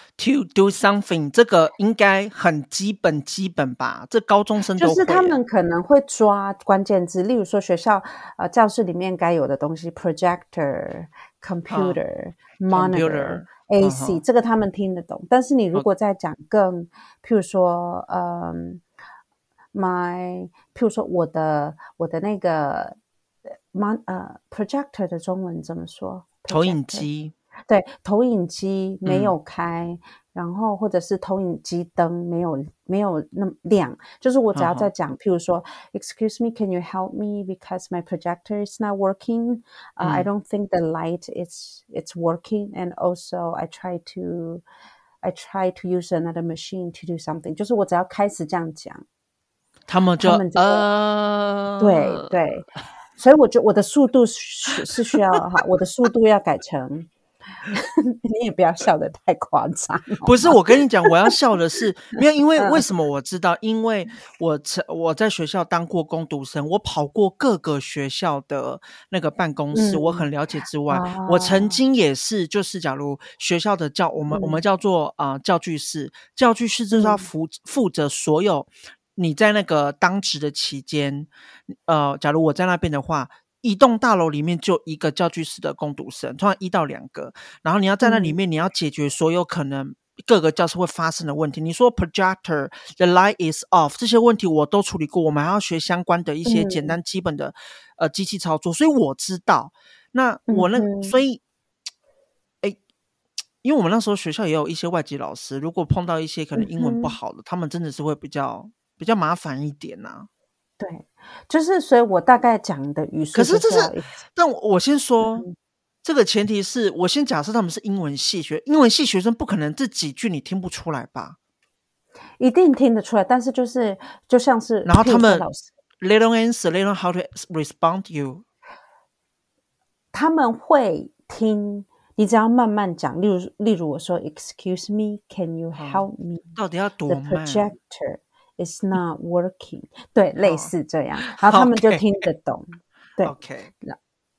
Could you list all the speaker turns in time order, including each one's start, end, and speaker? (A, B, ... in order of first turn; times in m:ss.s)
0:00.2-0:05.4 A
0:04.8-0:18.8 B
0:11.7-0:12.0 A
0:12.7-0:14.2 A
0:19.7-0:27.1 B
0:26.5-0:27.3 A
0:27.7-0:44.6 B
0:29.0-0:29.3 A
0:34.5-0:34.9 A
0:40.0-0:40.3 A
0:45.2-0:49.0 B
0:49.9-0:52.3 A
0:50.2-0:50.8 B
0:51.8-0:57.1 B
0:57.6-1:01.2 B
1:00.2-1:41.4 A
1:02.6-1:02.8 B
1:09.7-1:10.3 B
1:10.9-1:11.8 B
1:14.3-1:14.6 B
1:16.9-1:17.3 B
1:28.0-1:28.4 B
1:36.4-1:37.0 B
1:40.5-1:41.2 B
1:43.6-1:50.3 A
1:46.6-1:47.2 B
1:50.8-1:54.2 B
1:53.3-1:55.4 A
1:55.2-1:55.5 B
1:56.0-2:01.4 A
2:02.4-2:05.7 B
2:04.8-2:05.4 A
2:06.0-2:08.4 A
2:10.1-2:16.6 B
2:15.8-2:17.7 A
2:17.1-2:24.0 B
2:20.4-2:22.0 A
2:23.2-2:23.7 A